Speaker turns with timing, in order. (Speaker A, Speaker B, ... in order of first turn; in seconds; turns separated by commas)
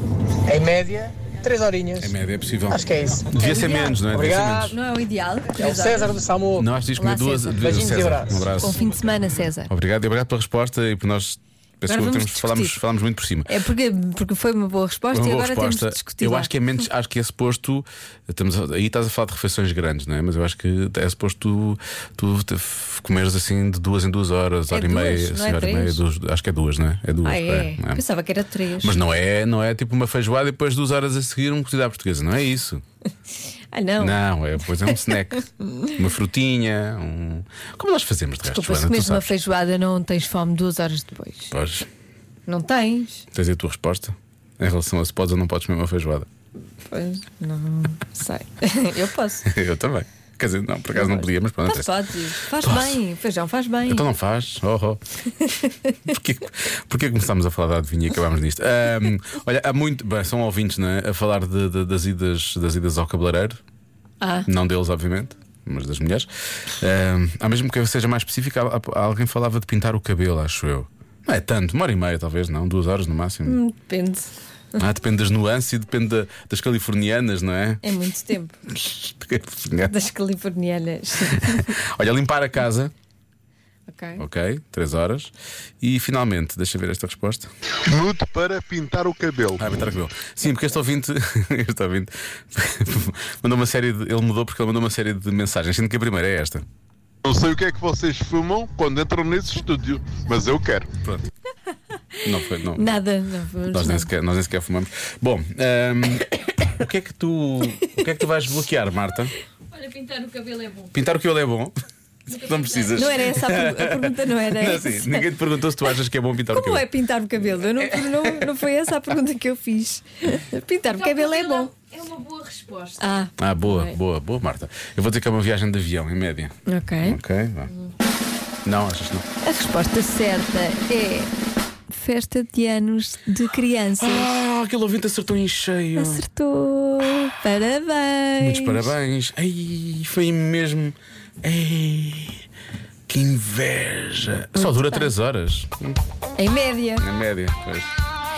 Speaker A: 0.4-2.1, Speaker B: 2.0-4.8, Speaker A: 2.7-3.4, Speaker C: 3.4-4.0, Speaker A: 4.1-4.8, Speaker C: 4.7-6.2, Speaker A: 5.5-6.7, Speaker B: 6.6-9.0, Speaker C: 7.0-7.7, Speaker A: 7.6-8.5, Speaker C: 8.6-9.7, Speaker B: 9.7-13.5, Speaker C: 11.8-12.8, Speaker C: 13.4-16.5, Speaker B: 15.1-28.0, Speaker C: 24.7-26.0, Speaker C: 27.2-29.0, Speaker B: 28.8-32.8, Speaker C: 33.7-34.2, Speaker B: 34.0-39.3, Speaker C: 34.8-35.9, Speaker C: 38.5-41.5, Speaker B: 41.5-41.9, Speaker C: 42.5-43.2, Speaker B: 43.3-46.3, Speaker C: 46.9-49.5, Speaker B: 49.5-51.9, Speaker C: 51.0-54.0, Speaker B: 52.6-53.0, Speaker B: 53.9-55.0, Speaker C: 55.4-56.0, Speaker B: 56.0-63.6, Speaker C: 64.2-64.5, Speaker B: 64.5-73.6, Speaker C: 73.5-74.3, Speaker B: 74.8-77.8, Speaker C: 77.8-78.6, Speaker B: 78.7-79.9, Speaker C: 79.9-81.7, Speaker B: 81.3-82.9, Speaker C: 83.9-84.2, Speaker B: 84.2-87.5, Speaker D: 87.9-89.6, Speaker B: 89.6-96.6, Speaker D: 97.2-100.9, Speaker B: 101.0-101.3, Speaker B: 102.2-102.9, Speaker C: 102.7-104.1, Speaker B: 103.7-109.3, Speaker E: 109.7-110.8, Speaker B: 110.9-111.8, Speaker B: 112.2-116.9, Speaker C: 112.9-115.3, Speaker C: 116.5-121.7, Speaker B: 117.6-118.6, Speaker E: 121.5-123.0, Speaker C: 123.0-124.0, Speaker B: 123.4-127.7, Speaker C: 126.7-127.2, Speaker B: 128.7-129.2, Speaker C: 129.4-131.3, Speaker C: 131.9-134.4, Speaker B: 134.0-136.2, Speaker C: 136.0-138.9, Speaker B: 138.4-142.4, Speaker B: 143.1-146.0, Speaker C: 144.5-145.1, Speaker C: 146.4-147.0, Speaker B: 147.0-147.9